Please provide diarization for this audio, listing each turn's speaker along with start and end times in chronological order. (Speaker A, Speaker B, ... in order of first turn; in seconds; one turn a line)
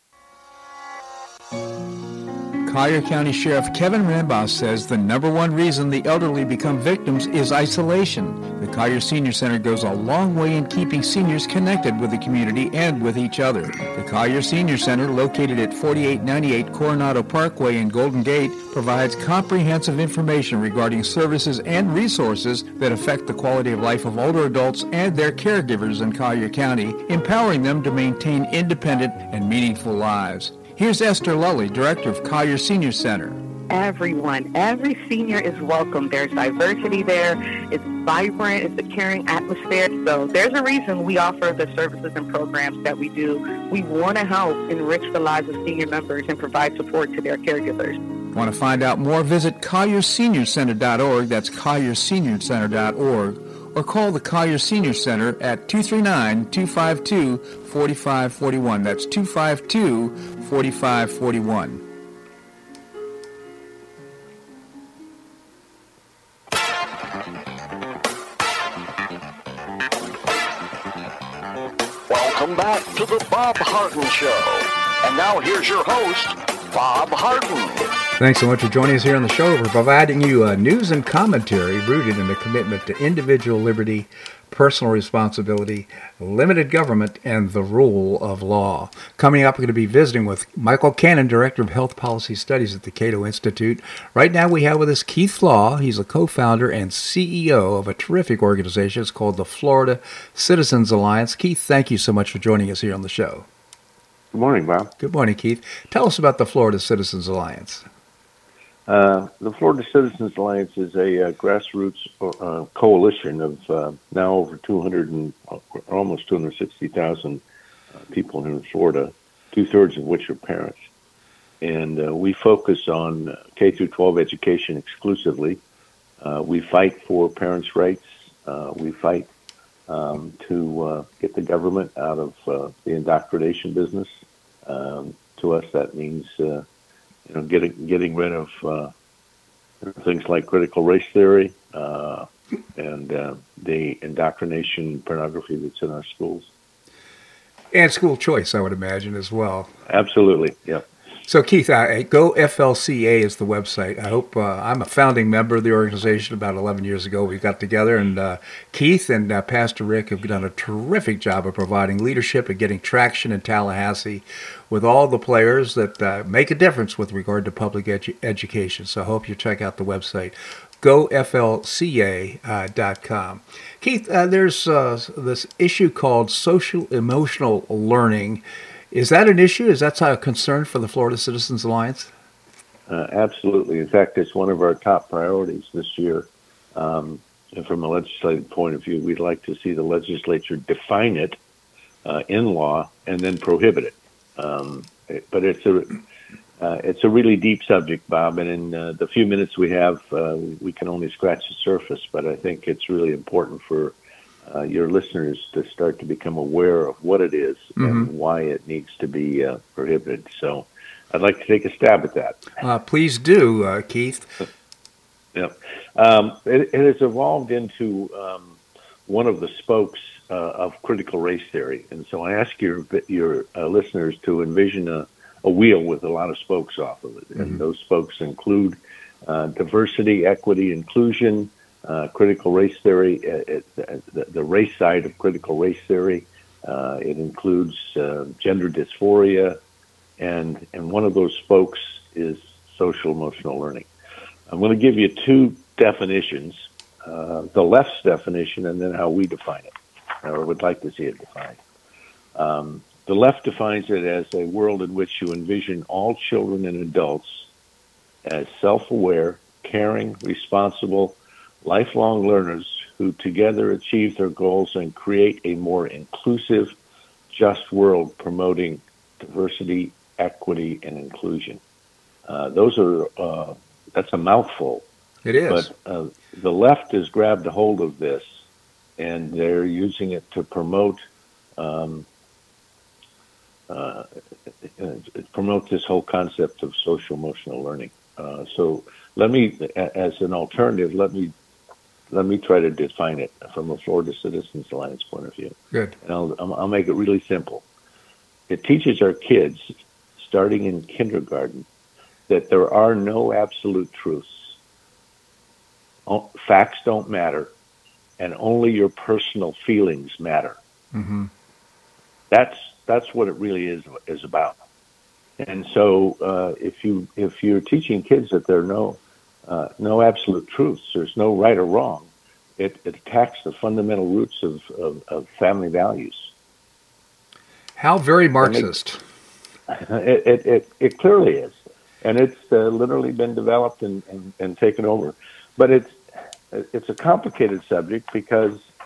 Speaker A: 2.6-33.4
Speaker B: 33.7-48.0
Speaker A: 48.3-61.8
Speaker C: 72.1-77.9
Speaker A: 78.2-103.5
Speaker D: 104.3-104.9
Speaker A: 105.0-107.8
Speaker D: 108.9-117.4
Speaker D: 118.0-120.8
Speaker D: 121.6-125.6
Speaker D: 126.2-129.3
Speaker D: 129.9-134.1
Speaker D: 134.6-136.6
Speaker D: 137.2-138.9
Speaker D: 139.8-146.5
Speaker A: 147.7-149.7
Speaker D: 149.8-150.9
Speaker A: 151.3-182.1
Speaker D: 182.9-191.4
Speaker D: 192.0-196.0
Speaker D: 196.6-212.4
Speaker A: 207.8-208.1
Speaker A: 212.6-214.3
Speaker D: 215.3-239.6
Speaker D: 240.2-243.9
Speaker D: 244.5-251.6
Speaker D: 252.3-257.5
Speaker D: 258.2-266.7
Speaker D: 267.3-271.6
Speaker D: 272.3-274.9
Speaker A: 275.2-275.7
Speaker D: 275.5-278.2
Speaker D: 279.0-281.0
Speaker D: 281.6-282.1
Speaker D: 283.7-284.1
Speaker D: 284.6-291.3
Speaker D: 292.1-297.6
Speaker D: 298.5-299.6
Speaker D: 300.2-301.7
Speaker D: 302.3-304.5
Speaker D: 306.1-307.5
Speaker D: 308.2-310.6
Speaker A: 310.9-311.3
Speaker D: 312.3-314.6
Speaker D: 315.4-326.3
Speaker A: 327.8-329.0
Speaker D: 328.4-328.7
Speaker D: 329.7-338.7